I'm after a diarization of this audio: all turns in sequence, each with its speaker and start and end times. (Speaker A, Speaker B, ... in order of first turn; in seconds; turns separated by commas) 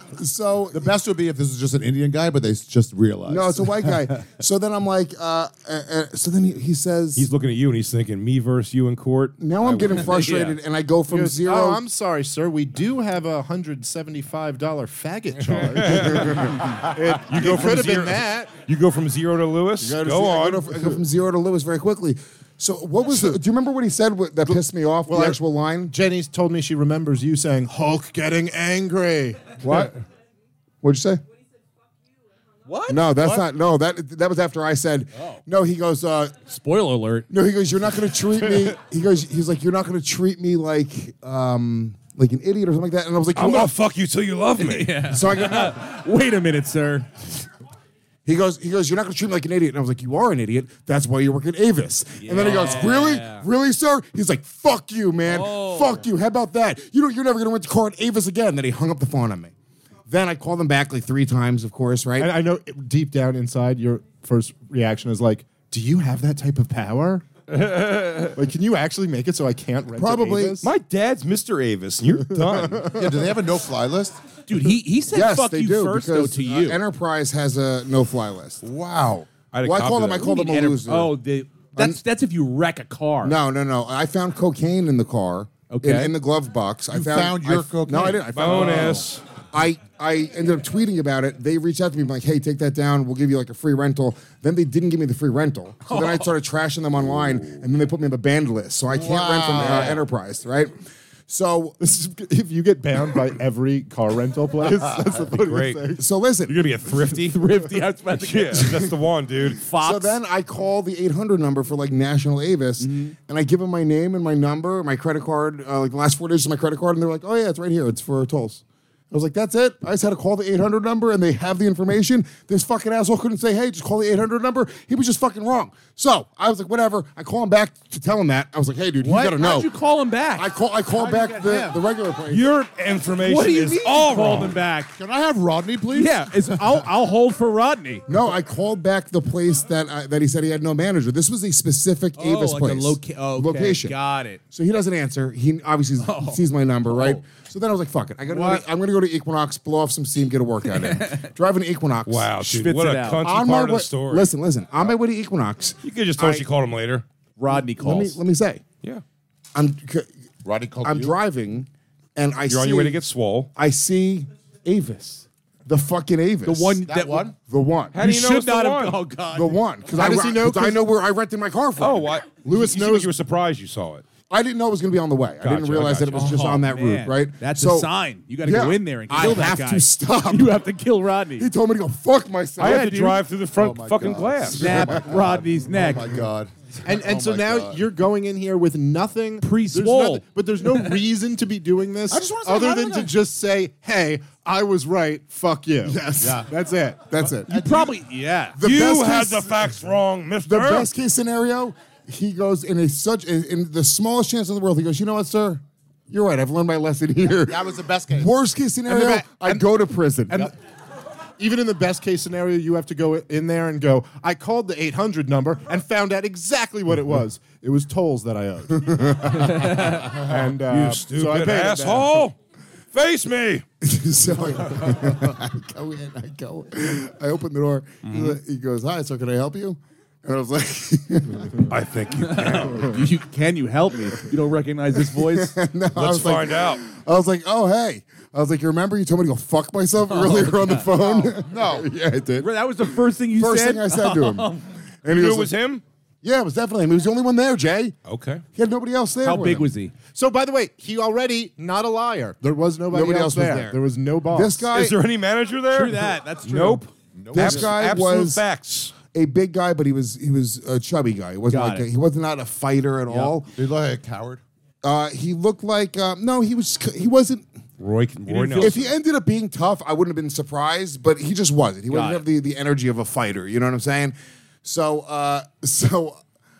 Speaker A: 0.1-0.9, Speaker B: 0.7-4.0, Speaker A: 3.2-7.3, Speaker C: 7.2-10.2, Speaker A: 9.4-11.8, Speaker D: 10.1-10.6, Speaker E: 11.1-18.6, Speaker C: 15.6-20.9, Speaker A: 19.8-25.9, Speaker E: 25.1-29.9, Speaker A: 29.6-29.9, Speaker A: 30.8-31.2, Speaker D: 32.7-33.4, Speaker A: 32.9-36.4, Speaker D: 35.1-35.4, Speaker D: 36.5-37.3, Speaker A: 37.3-43.7, Speaker C: 43.3-45.0, Speaker D: 44.6-47.1, Speaker A: 45.0-45.8, Speaker A: 48.2-59.5, Speaker D: 52.2-53.5, Speaker D: 55.2-56.1, Speaker A: 60.1-62.3, Speaker E: 62.2-67.2, Speaker C: 67.5-68.3, Speaker E: 68.3-70.7, Speaker A: 69.9-70.6, Speaker C: 70.6-72.9, Speaker E: 72.3-73.1, Speaker B: 72.9-74.2, Speaker D: 74.5-76.8, Speaker A: 75.1-78.6, Speaker B: 78.6-79.3, Speaker C: 79.5-80.5, Speaker A: 79.6-81.2, Speaker D: 80.2-83.3, Speaker A: 83.2-100.7, Speaker D: 85.7-86.1, Speaker B: 86.9-88.9, Speaker C: 88.3-89.2, Speaker D: 95.8-96.3, Speaker B: 98.9-100.0, Speaker A: 101.3-101.8, Speaker E: 101.8-106.0, Speaker C: 105.3-105.8, Speaker A: 106.0-106.6, Speaker C: 106.5-107.4, Speaker D: 107.2-108.7, Speaker C: 108.1-109.6, Speaker D: 109.5-110.2, Speaker A: 109.8-129.7, Speaker D: 112.8-113.1, Speaker D: 129.0-130.5, Speaker A: 130.3-132.5, Speaker B: 130.9-131.8, Speaker C: 132.3-134.5, Speaker D: 133.2-134.9, Speaker B: 134.9-136.6, Speaker D: 135.9-138.1, Speaker A: 138.1-144.0, Speaker D: 142.2-144.4, Speaker A: 144.5-152.3, Speaker D: 146.0-147.2, Speaker D: 148.3-148.6, Speaker D: 150.7-151.3, Speaker C: 152.1-154.3, Speaker D: 152.4-153.2, Speaker A: 153.2-156.4, Speaker C: 155.8-157.0, Speaker D: 157.4-158.2, Speaker A: 157.7-158.6, Speaker A: 159.5-160.1, Speaker B: 160.4-161.2, Speaker A: 160.8-163.0, Speaker C: 162.5-163.5, Speaker A: 163.6-166.8, Speaker D: 166.4-167.3, Speaker B: 166.8-167.3, Speaker A: 167.5-168.0, Speaker C: 167.9-169.0, Speaker D: 167.9-170.2, Speaker A: 169.3-172.1, Speaker E: 169.9-170.8, Speaker C: 171.8-174.0, Speaker E: 172.4-173.1, Speaker A: 174.3-177.9, Speaker C: 175.4-176.4, Speaker D: 176.1-181.5, Speaker A: 178.4-180.6, Speaker A: 181.4-182.8, Speaker D: 182.6-183.2, Speaker C: 182.6-184.9, Speaker B: 183.6-187.9, Speaker D: 184.5-186.2, Speaker E: 186.8-197.1, Speaker D: 189.4-191.0, Speaker B: 192.1-193.2, Speaker A: 195.8-196.5, Speaker B: 196.2-196.5, Speaker A: 197.1-197.7, Speaker D: 197.5-198.6, Speaker B: 197.6-197.9, Speaker A: 198.6-199.7, Speaker C: 198.6-200.9, Speaker A: 200.4-210.5, Speaker B: 207.4-208.3, Speaker E: 208.9-209.6, Speaker E: 211.4-219.0, Speaker A: 218.7-219.7, Speaker D: 219.5-220.1, Speaker E: 219.8-222.2, Speaker C: 220.2-222.4, Speaker C: 222.9-223.6, Speaker A: 223.8-231.7, Speaker D: 228.0-228.3, Speaker C: 231.7-233.0, Speaker D: 232.2-235.5, Speaker A: 235.1-242.5, Speaker C: 235.9-236.8, Speaker D: 240.1-241.0, Speaker B: 241.3-241.9, Speaker D: 242.4-244.7, Speaker A: 243.3-245.5, Speaker C: 245.1-245.8, Speaker A: 246.2-247.9, Speaker C: 248.1-248.4, Speaker A: 248.5-249.7, Speaker D: 249.2-249.9, Speaker E: 250.1-254.7, Speaker A: 252.9-255.0, Speaker C: 254.7-258.9, Speaker D: 255.7-256.9, Speaker B: 257.1-257.7, Speaker A: 257.3-258.4, Speaker A: 259.1-263.5, Speaker D: 261.5-261.9, Speaker D: 263.1-263.3, Speaker B: 263.5-264.4, Speaker A: 264.8-267.5, Speaker C: 267.8-268.9, Speaker D: 268.3-268.7, Speaker A: 268.5-276.2, Speaker D: 271.9-272.2